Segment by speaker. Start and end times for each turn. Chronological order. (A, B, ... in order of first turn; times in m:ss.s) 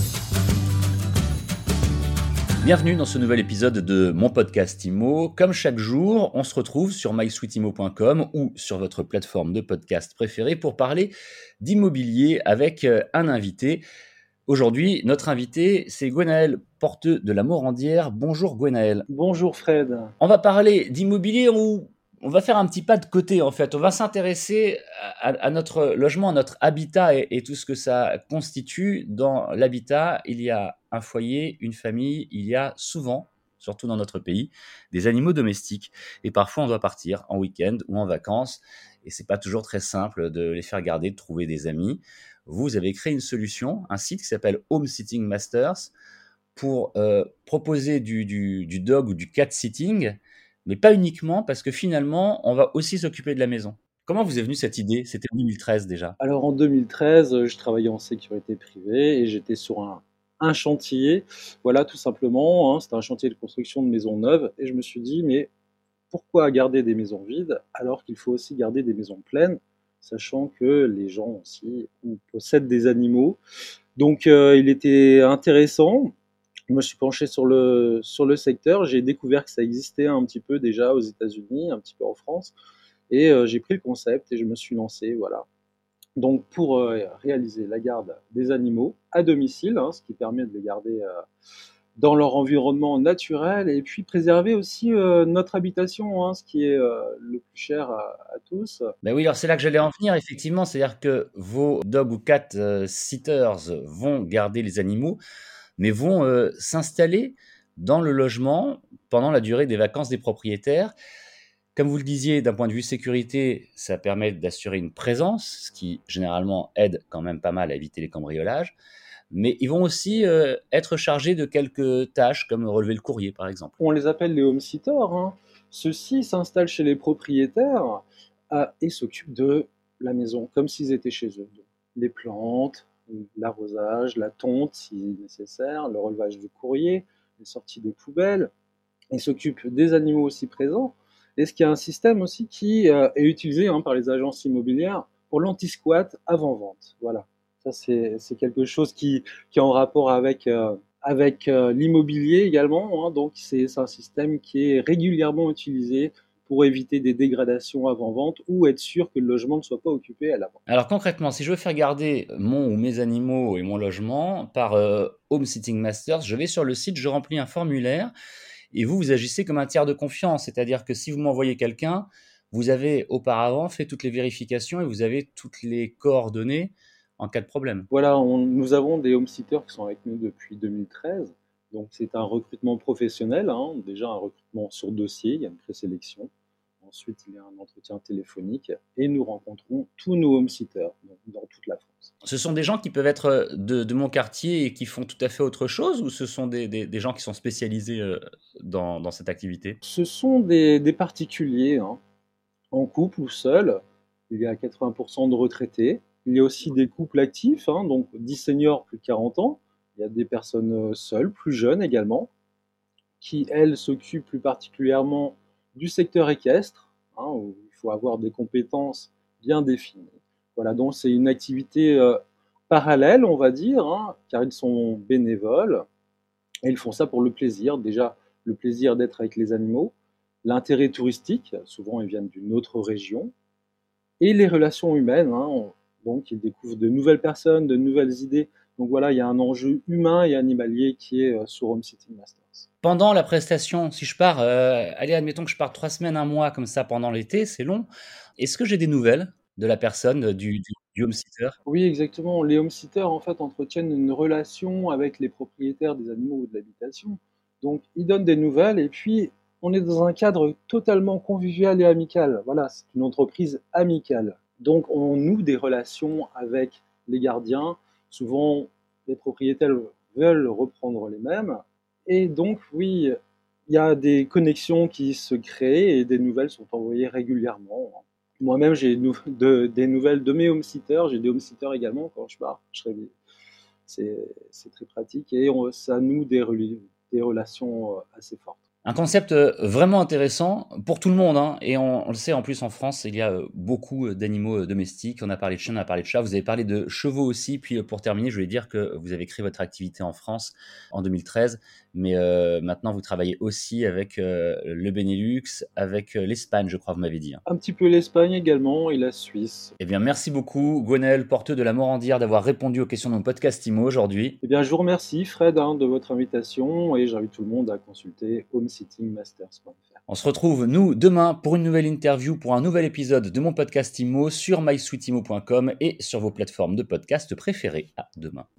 0:02.6-0:13.8 A
0:14.5-0:19.1 A
0:19.1-0:20.1 B
0:20.2-0:45.9 A
0:46.6-0:56.2 A
0:56.2-1:05.5 B
1:06.1-1:13.4 B
1:14.0-1:16.1 B
1:16.7-1:22.5 B
1:23.1-1:25.4 B
1:26.2-1:31.2 B
1:32.0-1:38.9 B
1:39.0-1:45.2 A
1:45.8-1:50.9 A
1:51.7-1:58.7 A
1:59.3-2:03.7 A
2:03.8-2:18.5 B
2:19.1-2:40.6 B
2:40.7-2:48.1 A
2:48.7-2:57.9 A
2:57.9-3:06.3 B
3:06.8-3:12.1 B
3:12.2-3:19.8 A
3:19.8-3:22.0 B
3:22.7-3:32.3 B
3:33.2-3:45.8 B
3:46.6-3:53.3 B
3:54.2-4:02.7 B
4:02.8-4:11.6 A
4:11.6-4:33.2 B
4:33.7-4:43.1 B
4:43.8-4:48.6 B
4:48.8-5:07.4 A
5:07.4-5:09.7 B
5:09.8-5:14.4 A
5:14.4-5:20.0 B
5:20.1-5:28.4 A